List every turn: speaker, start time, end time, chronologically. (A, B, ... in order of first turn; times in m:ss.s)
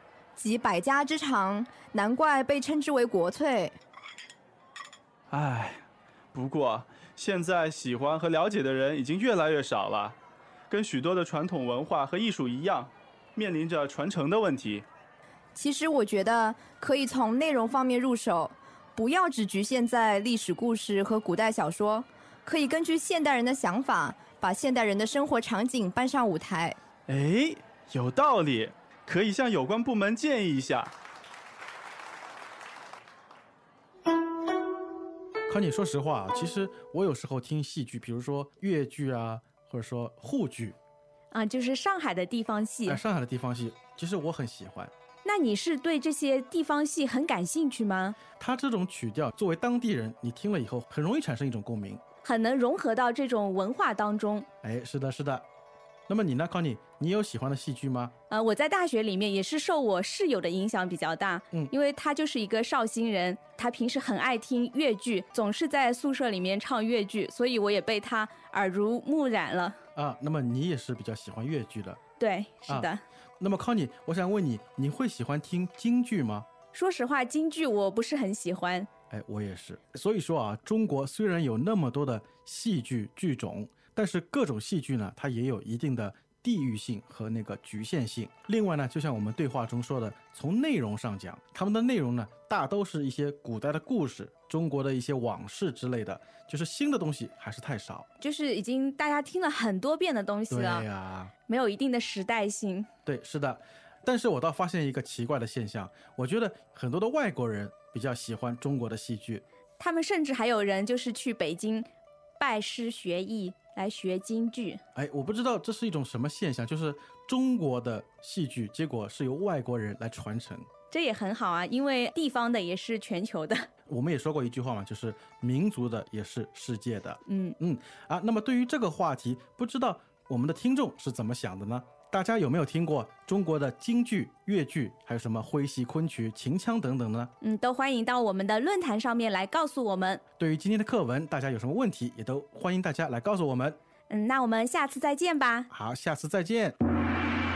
0:00.4-0:03.8 A
0:05.3-0:05.8 B
0:06.3-0:10.2 B
0:10.7-0:14.8 B
0:15.5-0:26.8 A
0:27.1-0:30.9 B
0:35.5-0:40.8 C
0:41.3-0:43.0 D
0:42.8-0:44.9 C
0:45.2-0:48.2 D
0:48.4-0:52.0 C
0:52.2-0:54.5 D
0:54.6-0:55.4 C
0:56.1-0:58.1 C
0:58.3-1:09.8 D
1:09.9-1:12.0 C
1:12.2-1:13.0 D
1:12.7-1:16.5 C
1:16.7-1:18.9 D
1:19.1-1:38.0 C
1:38.2-1:40.9 D
1:40.5-1:41.3 C
1:41.5-1:42.9 D
1:43.0-1:49.4 C
1:49.8-1:51.9 D
1:52.4-1:54.8 D
1:54.9-2:00.7 C
2:00.9-2:03.6 D
2:03.9-2:17.3 C
2:07.3-2:07.6 D
2:17.4-2:20.2 D
2:20.4-2:23.8 C
2:24.1-2:25.7 D
2:25.7-2:26.8 C